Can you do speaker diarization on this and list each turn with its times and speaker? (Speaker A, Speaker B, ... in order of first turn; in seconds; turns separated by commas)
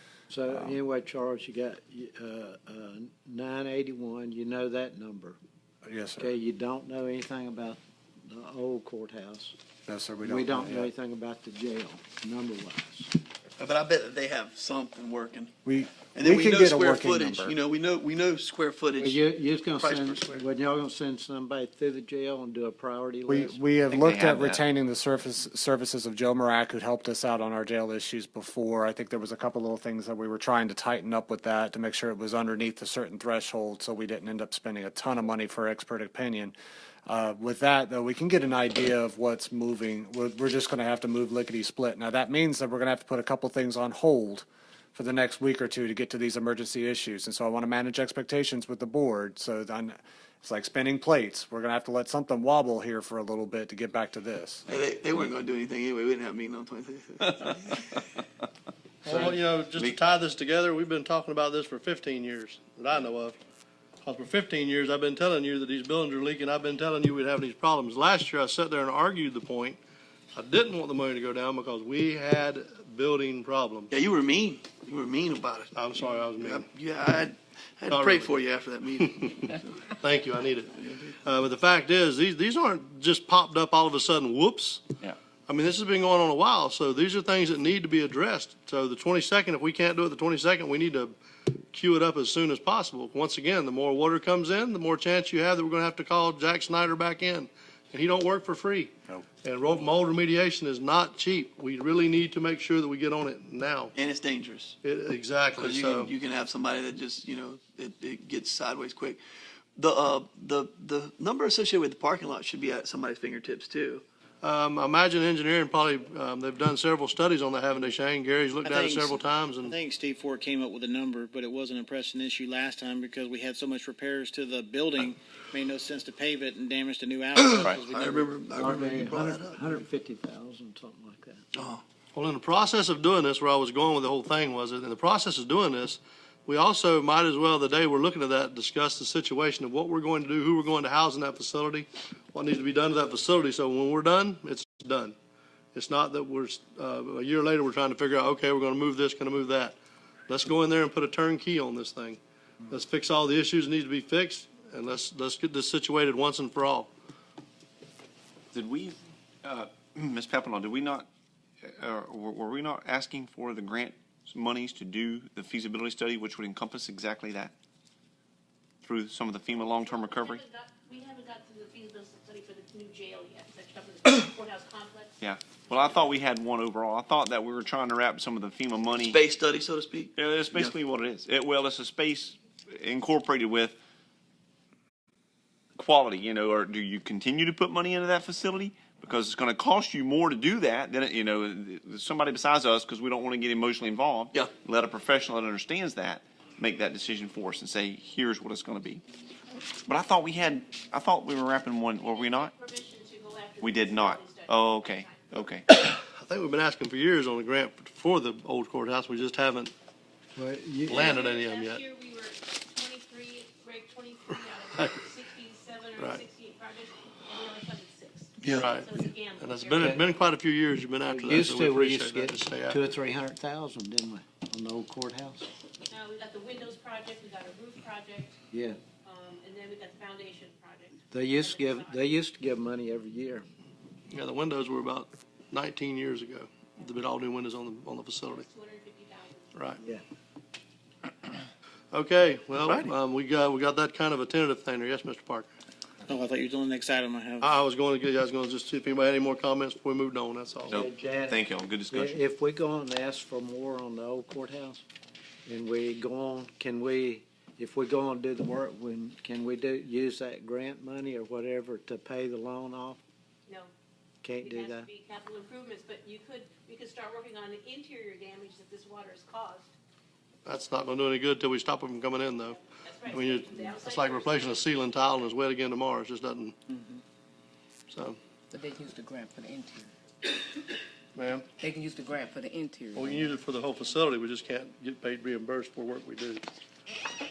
Speaker A: 0.3-5.4, Speaker B: 5.8-6.3, Speaker A: 6.2-9.5, Speaker B: 9.9-10.9, Speaker A: 10.2-13.2, Speaker C: 13.6-15.5, Speaker B: 15.6-17.5, Speaker C: 16.1-19.2, Speaker A: 19.0-23.6, Speaker C: 19.8-20.4, Speaker B: 23.3-36.5, Speaker D: 23.9-24.6, Speaker B: 37.1-54.6, Speaker C: 54.7-57.8, Speaker E: 59.0-63.4, Speaker C: 59.1-60.0, Speaker E: 64.0-69.8, Speaker E: 70.3-73.9, Speaker C: 73.9-75.7, Speaker E: 75.7-76.7, Speaker C: 76.4-79.6, Speaker E: 77.9-78.4, Speaker E: 79.0-79.3, Speaker E: 80.0-84.9, Speaker E: 85.5-91.1, Speaker E: 91.7-103.9, Speaker C: 103.9-104.8, Speaker E: 104.8-106.1, Speaker C: 105.6-109.2, Speaker C: 109.8-114.0, Speaker E: 114.4-119.7, Speaker F: 118.6-128.3, Speaker C: 127.3-129.8, Speaker D: 127.5-127.8, Speaker A: 128.5-131.4, Speaker C: 131.6-131.8, Speaker E: 132.1-145.1, Speaker E: 145.7-149.8, Speaker E: 150.3-152.2, Speaker E: 152.7-156.9, Speaker D: 158.5-161.1, Speaker D: 161.7-167.5, Speaker D: 168.8-170.4, Speaker G: 169.6-175.1, Speaker D: 175.2-179.2, Speaker C: 179.0-180.8, Speaker D: 180.1-183.8, Speaker D: 185.8-199.0, Speaker D: 199.8-202.5, Speaker G: 202.0-205.3, Speaker D: 203.6-205.6, Speaker E: 205.7-209.7, Speaker A: 210.3-211.1, Speaker E: 210.9-211.8, Speaker G: 210.9-220.0, Speaker E: 218.5-222.8, Speaker A: 219.8-220.0, Speaker A: 221.1-225.5, Speaker G: 225.9-228.4, Speaker A: 228.5-228.8, Speaker G: 229.0-232.1, Speaker A: 231.1-233.4, Speaker E: 234.1-238.4, Speaker G: 238.3-239.6, Speaker E: 239.5-239.8, Speaker E: 241.9-245.5, Speaker D: 242.6-242.9, Speaker F: 246.0-247.6, Speaker E: 247.4-250.8, Speaker A: 250.7-254.8, Speaker D: 250.7-252.2, Speaker A: 255.4-263.0, Speaker A: 264.2-264.9, Speaker G: 264.4-269.7, Speaker E: 270.4-272.6, Speaker G: 272.5-274.8, Speaker E: 273.1-276.6, Speaker E: 277.9-278.2, Speaker H: 278.5-279.9, Speaker E: 281.1-281.5, Speaker H: 281.6-283.3, Speaker E: 282.9-286.4